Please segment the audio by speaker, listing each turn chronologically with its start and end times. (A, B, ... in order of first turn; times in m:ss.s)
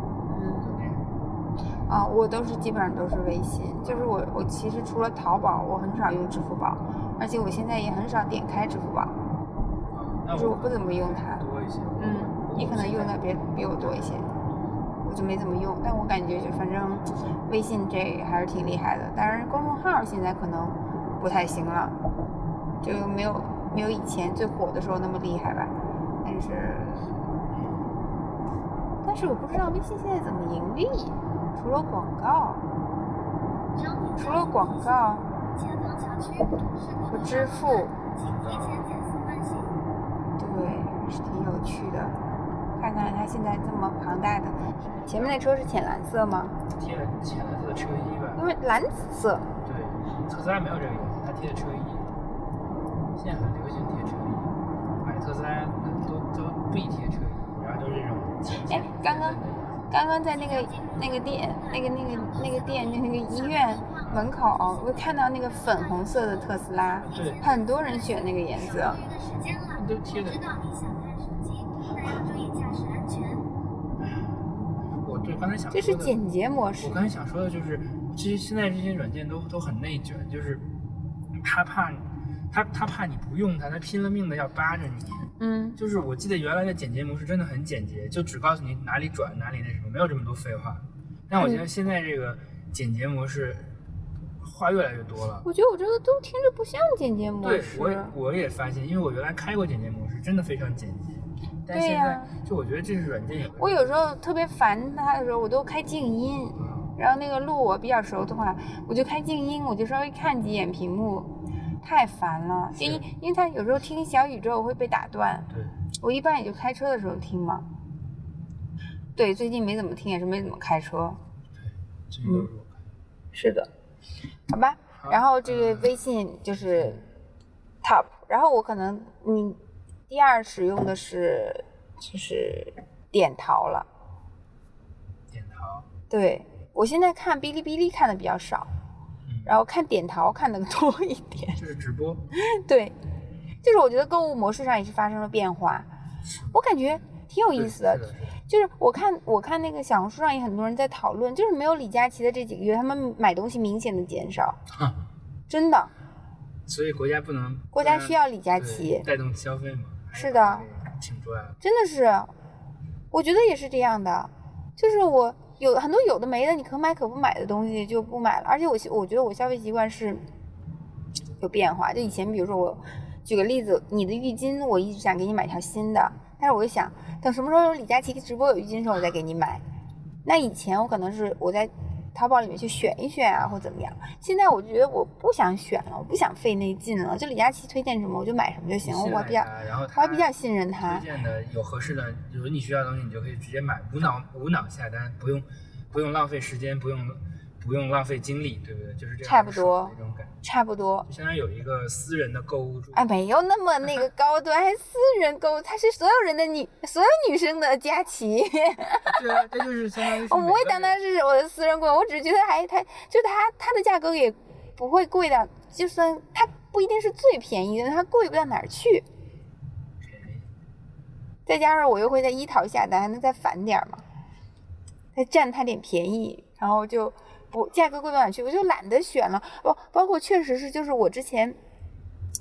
0:00.3-0:00.7 A
0:00.6-0:01.2 B
0:01.9-0:09.2 A
0:03.8-0:04.1 B
0:09.9-0:14.7 B
0:10.3-0:11.4 A
0:12.0-0:14.3 A
0:15.0-0:22.0 A
0:22.8-0:27.1 A
0:27.5-0:28.0 B
0:29.0-0:32.6 A
0:33.7-0:39.7 C
0:34.2-0:35.2 A
0:37.1-0:37.9 A
0:38.2-0:38.9 B
0:40.4-0:42.1 A
0:42.8-0:46.6 A
0:44.8-0:45.5 B
0:46.7-0:48.4 B
0:48.4-0:49.5 A
0:49.6-0:52.2 B
0:53.1-0:59.9 B
0:58.7-0:59.4 A
0:59.9-1:09.0 A
1:00.3-1:13.5 C
1:04.0-1:05.1 B
1:07.0-1:07.5 B
1:09.7-1:10.4 B
1:14.0-1:14.3 B
1:15.0-1:16.2 B
1:15.7-1:17.0 A
1:16.8-1:20.7 B
1:21.3-1:33.7 B
1:25.4-1:25.8 A
1:31.4-1:31.6 A
1:34.4-1:35.5 B
1:35.4-1:38.1 A
1:37.4-1:44.0 B
1:41.7-1:42.3 A
1:43.6-1:55.5 A
1:46.6-1:46.9 B
1:52.8-1:53.0 B
1:56.0-1:57.6 A
1:59.2-2:01.2 A
2:01.6-2:02.9 B
2:03.3-2:03.7 A
2:04.5-2:07.0 A
2:04.9-2:06.0 B
2:06.5-2:07.1 B
2:07.8-2:13.9 A
2:15.3-2:15.9 B
2:16.1-2:18.7 A
2:19.2-2:19.6 B
2:19.4-2:21.6 A
2:21.6-2:22.2 B
2:22.3-2:22.9 A
2:23.6-2:25.9 A
2:26.2-2:28.4 B
2:26.5-2:34.6 A
2:34.7-2:35.0 B
2:35.5-2:35.9 A
2:36.6-2:41.6 B
2:37.7-2:39.0 A
2:40.1-2:40.7 A
2:41.6-2:42.3 A
2:43.1-2:50.2 A
2:51.4-2:59.6 A
3:00.2-3:11.0 A
3:08.8-3:20.4 B
3:19.2-3:21.1 A
3:21.1-3:23.1 B
3:22.9-3:29.4 A
3:29.0-3:31.0 B
3:30.0-3:39.0 A
3:40.0-3:40.5 B
3:41.4-3:44.0 A
3:45.1-3:51.6 A